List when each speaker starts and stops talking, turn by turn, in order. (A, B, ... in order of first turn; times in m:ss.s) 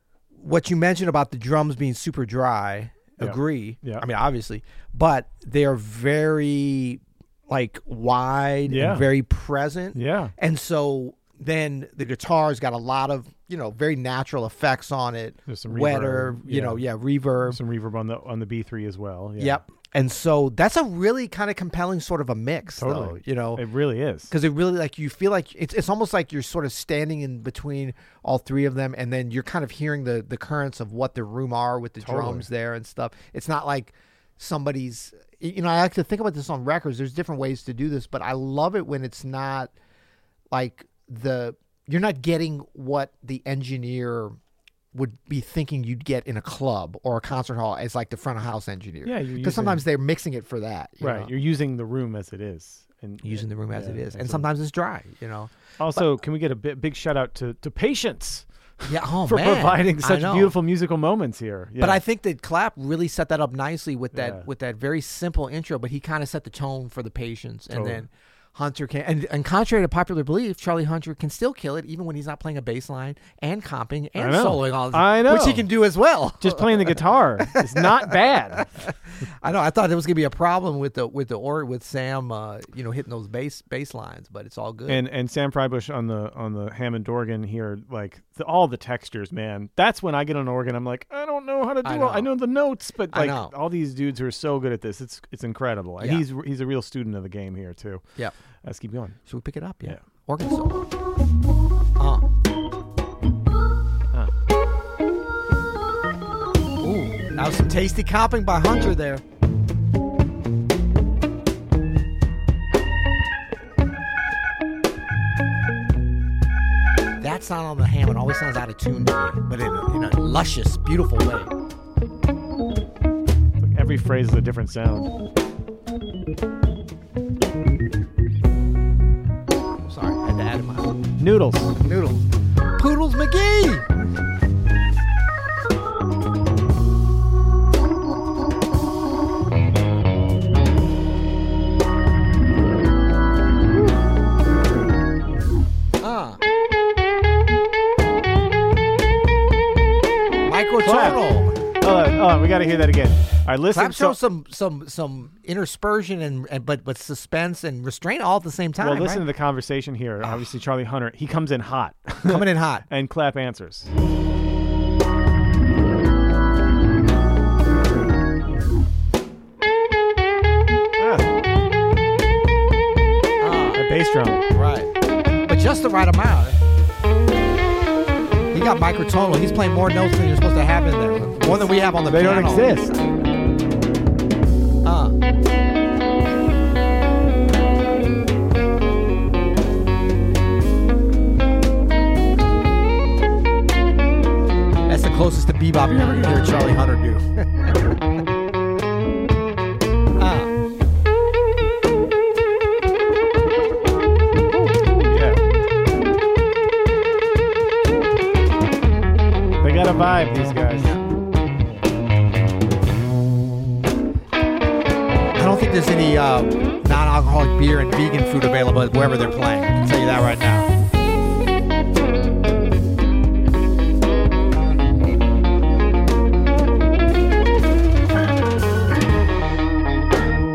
0:00.3-0:17.6 A
0:03.2-0:04.0 B
0:08.7-0:09.1 B
0:09.9-0:10.3 B
0:15.5-0:16.8 B
0:17.5-0:19.6 B
0:19.4-0:23.6 A
0:22.8-0:24.3 B
0:24.3-0:39.7 A
0:32.0-0:32.5 B
0:40.5-0:44.4 A
0:44.9-0:51.3 A
0:49.0-0:49.8 B
0:51.0-0:54.5 B
0:53.2-0:56.1 A
0:55.8-1:02.0 B
0:58.9-1:00.6 A
1:01.8-1:25.0 A
1:04.1-1:04.4 B
1:07.7-1:08.0 B
1:14.2-1:15.7 B
1:16.4-1:18.8 B
1:24.9-1:38.0 B
1:31.8-1:32.3 A
1:33.1-1:33.5 A
1:36.0-1:36.3 A
1:38.6-1:39.2 B
1:39.3-1:40.9 A
1:42.0-1:42.2 A
1:46.8-1:49.2 A
1:57.2-2:01.5 A
2:03.6-2:05.1 B
2:09.8-2:11.0 A
2:11.2-2:11.8 B
2:11.8-2:13.9 A
2:26.0-2:26.4 A
2:30.5-2:31.6 A
2:30.8-2:31.2 B
2:31.8-2:34.2 B
2:33.7-2:39.3 A
2:38.8-2:43.9 B
2:40.2-2:40.5 A
2:42.2-2:42.9 A
2:51.0-2:51.3 B
2:53.4-2:53.9 A
2:53.8-2:54.4 B
2:54.5-2:54.9 A
2:55.4-2:56.6 A
2:58.5-3:02.9 A
3:01.4-3:03.0 B
3:04.8-3:05.2 A
3:14.9-3:18.0 A
3:20.2-3:20.5 A
3:25.0-3:25.4 B
3:29.6-3:30.9 B
3:35.4-3:40.7 A